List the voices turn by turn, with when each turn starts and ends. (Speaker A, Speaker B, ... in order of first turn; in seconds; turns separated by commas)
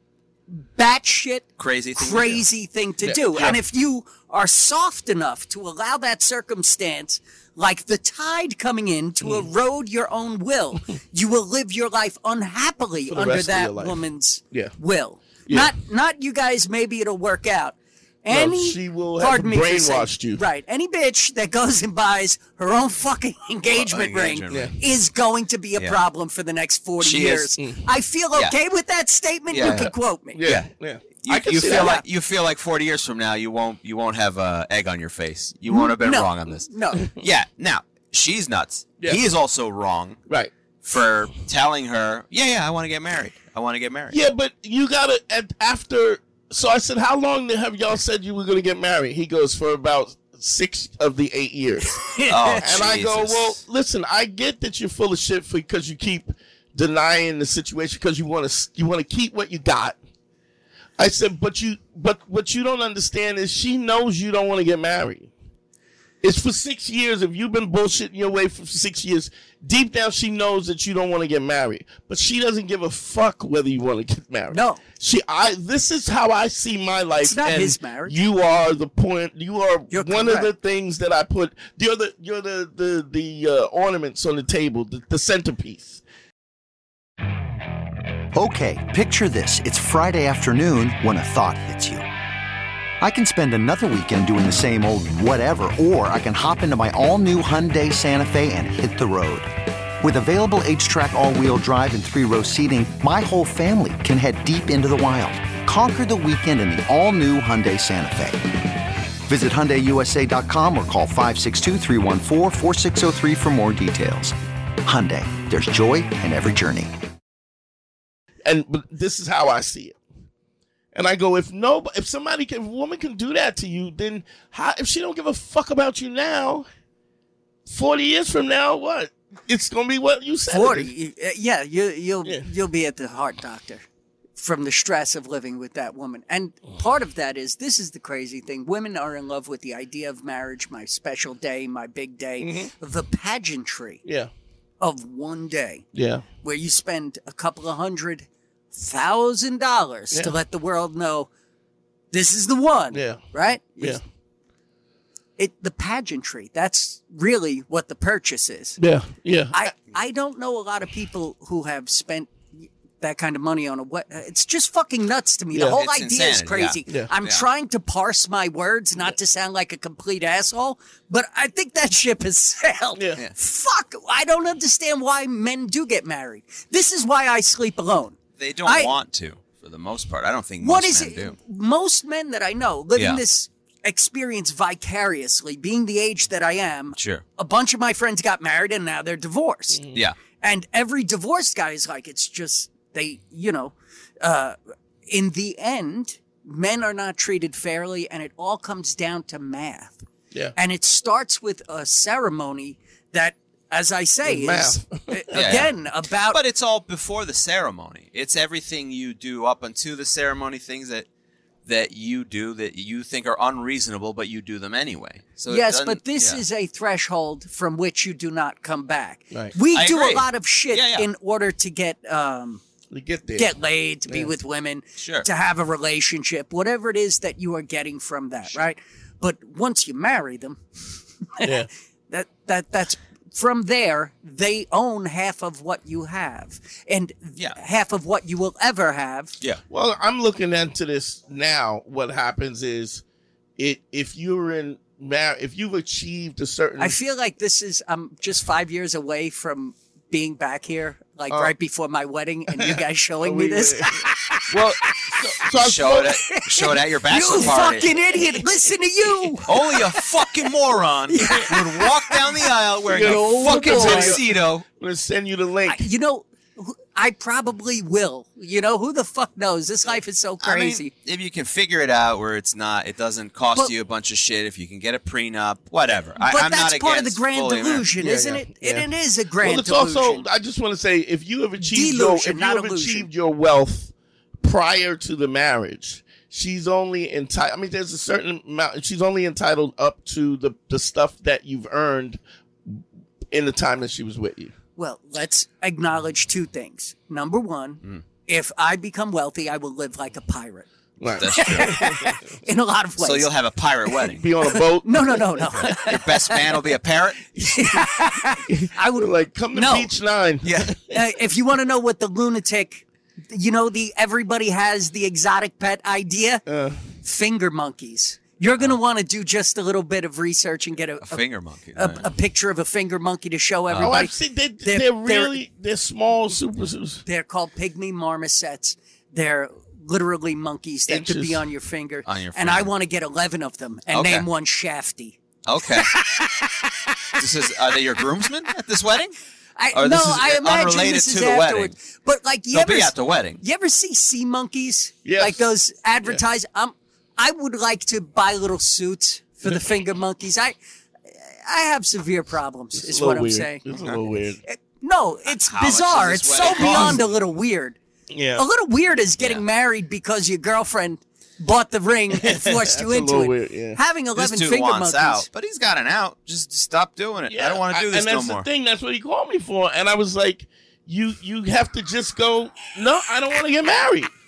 Speaker A: 0.5-30.4, Speaker B: 1.6-2.4, Speaker C: 3.0-3.6, Speaker C: 13.1-14.0, Speaker C: 15.5-15.7, Speaker C: 18.3-20.4, Speaker B: 23.7-24.7, Speaker C: 24.5-24.8, Speaker B: 27.0-27.6, Speaker B: 29.5-29.9, Speaker C: 29.6-32.0, Speaker B: 31.2-40.2, Speaker A: 31.6-32.0, Speaker A: 35.7-37.1, Speaker B: 40.8-44.2, Speaker C: 44.1-52.0, Speaker A: 51.9-52.7, Speaker B: 52.3-53.6, Speaker C: 52.6-60.0, Speaker C: 61.0-65.3, Speaker C: 66.2-86.0, Speaker A: 74.5-74.8, Speaker A: 77.2-78.2, Speaker A: 79.9-80.5, Speaker D: 88.3-92.0, Speaker D: 93.0-108.4, Speaker D: 109.3-116.9, Speaker C: 118.5-120.0, Speaker C: 120.9-126.7, Speaker C: 127.7-130.9, Speaker A: 130.5-133.8, Speaker A: 134.4-144.0, Speaker C: 142.4-142.7, Speaker C: 144.1-144.3, Speaker A: 144.8-145.8, Speaker C: 145.9-146.2, Speaker A: 146.4-151.3, Speaker A: 152.1-154.0, Speaker C: 152.9-153.2, Speaker A: 155.4-158.8, Speaker C: 158.8-159.6, Speaker A: 159.5-178.9, Speaker B: 165.7-167.4, Speaker B: 178.4-181.4, Speaker A: 180.6-189.9, Speaker B: 183.0-183.2, Speaker B: 187.0-187.2, Speaker A: 190.4-200.1, Speaker A: 200.6-206.4, Speaker C: 204.2-205.7, Speaker B: 205.3-205.7, Speaker B: 206.3-211.1, Speaker B: 211.7-216.4, Speaker A: 215.5-222.6, Speaker B: 219.7-221.1, Speaker C: 222.9-223.5, Speaker A: 223.4-230.6, Speaker B: 225.0-225.3, Speaker A: 231.4-239.4, Speaker C: 231.4-231.7, Speaker C: 239.7-243.0, Speaker C: 243.6-247.0, Speaker A: 246.8-255.2, Speaker C: 252.6-256.2, Speaker B: 255.6-257.9, Speaker A: 256.2-260.5, Speaker B: 259.4-264.6, Speaker A: 261.1-262.4, Speaker C: 262.9-265.9, Speaker A: 263.0-264.2, Speaker A: 265.7-270.9, Speaker B: 270.4-277.9, Speaker A: 276.2-280.2, Speaker C: 278.0-278.9, Speaker C: 279.4-294.5, Speaker A: 281.6-283.1, Speaker A: 294.8-300.7, Speaker C: 301.0-302.1, Speaker A: 301.2-303.3, Speaker B: 301.2-301.8, Speaker B: 303.0-304.2, Speaker C: 304.1-305.9, Speaker A: 304.5-306.6, Speaker B: 305.6-307.4, Speaker C: 307.4-307.6, Speaker A: 307.4-309.9, Speaker C: 308.5-311.0, Speaker B: 310.4-310.7, Speaker A: 310.9-316.4, Speaker C: 316.5-316.8, Speaker A: 317.0-324.1, Speaker B: 321.0-322.1, Speaker B: 323.7-324.0, Speaker C: 323.8-327.0, Speaker A: 324.6-325.4, Speaker A: 327.1-335.2, Speaker C: 330.9-331.4, Speaker B: 332.1-332.7, Speaker B: 333.9-334.3, Speaker B: 335.5-335.9, Speaker A: 335.7-338.2, Speaker B: 337.2-339.1, Speaker A: 339.6-350.6, Speaker B: 339.7-341.7, Speaker B: 342.5-343.4, Speaker C: 345.1-345.4, Speaker A: 351.1-353.6, Speaker C: 352.8-354.4, Speaker A: 354.5-357.8, Speaker B: 355.3-357.0, Speaker C: 356.5-357.0, Speaker C: 358.1-358.4, Speaker A: 358.4-365.3, Speaker C: 362.2-363.8, Speaker B: 364.2-368.5, Speaker C: 367.3-374.1